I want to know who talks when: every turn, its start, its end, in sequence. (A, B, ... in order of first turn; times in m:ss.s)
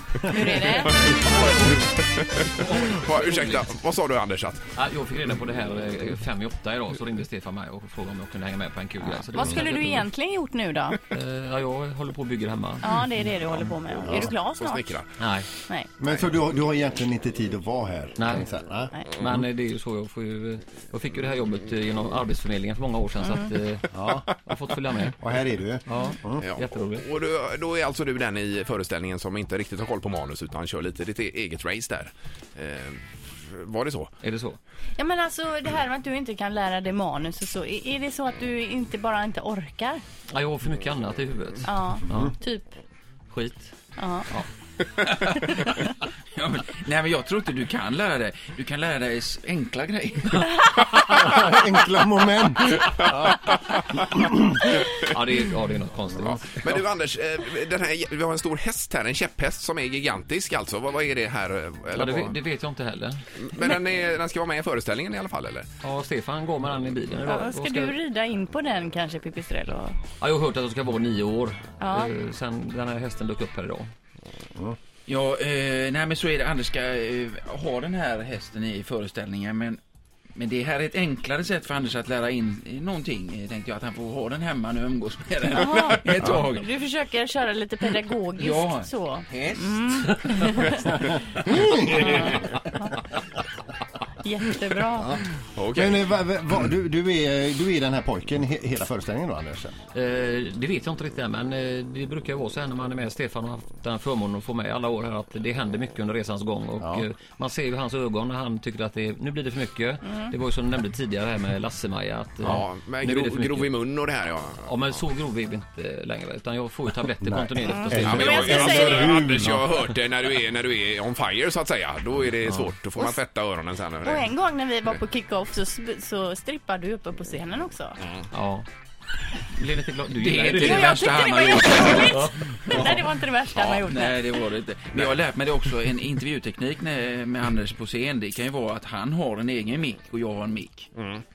0:00.3-0:04.6 A
0:00.3-0:00.9 B
0:00.9-0:01.9 C
0:02.5-0:03.7 C
0:04.7-0:10.1 C
0:09.3-0:11.0 B
0:11.1-0:13.7 C
0:12.8-0:15.0 B
0:14.0-0:14.3 D
0:14.2-0:15.1 A
0:15.2-0:15.5 C
0:16.0-0:19.4 D
0:18.2-0:18.5 C
0:19.1-0:25.2 C
0:23.9-0:24.3 D
0:25.2-0:26.4 D
0:25.9-0:27.0 C
0:26.4-0:34.1 A
0:34.2-0:34.6 C
0:35.0-0:40.0 B
0:40.3-0:42.4 C
0:41.6-0:42.7 B
0:43.3-0:44.5 C
0:44.0-0:44.3 B
0:45.0-0:50.7 E
0:51.1-0:54.4 D
0:54.9-0:56.8 C
0:56.6-1:02.4 A
1:01.9-1:03.2 C
1:03.4-1:05.7 A
1:05.8-1:07.9 C
1:07.2-1:10.0 B
1:10.2-1:13.9 C
1:11.8-1:12.1 B
1:15.1-1:19.8 E
1:20.4-1:26.7 E
1:25.5-1:26.0 B
1:25.8-1:26.4 A
1:26.5-1:30.9 B
1:28.4-1:30.3 E
1:30.9-1:32.2 D
1:32.0-1:33.0 B
1:34.2-1:35.2 B
1:35.5-1:36.0 A
1:35.8-1:39.8 D
1:39.9-1:53.8 C
1:46.8-1:47.0 D
1:52.4-1:54.8 A
1:54.7-1:59.0 C
1:57.2-1:59.8 D
1:57.7-1:59.2 B
1:58.0-2:05.0 A
2:02.4-2:02.7 C
2:04.0-2:08.0 B
2:08.3-2:08.6 C
2:09.5-2:11.1 C
2:10.2-2:13.1 E
2:10.7-2:12.3 B
2:12.0-2:12.8 C
2:12.8-2:14.4 B
2:13.6-2:20.9 E
2:21.0-2:21.2 A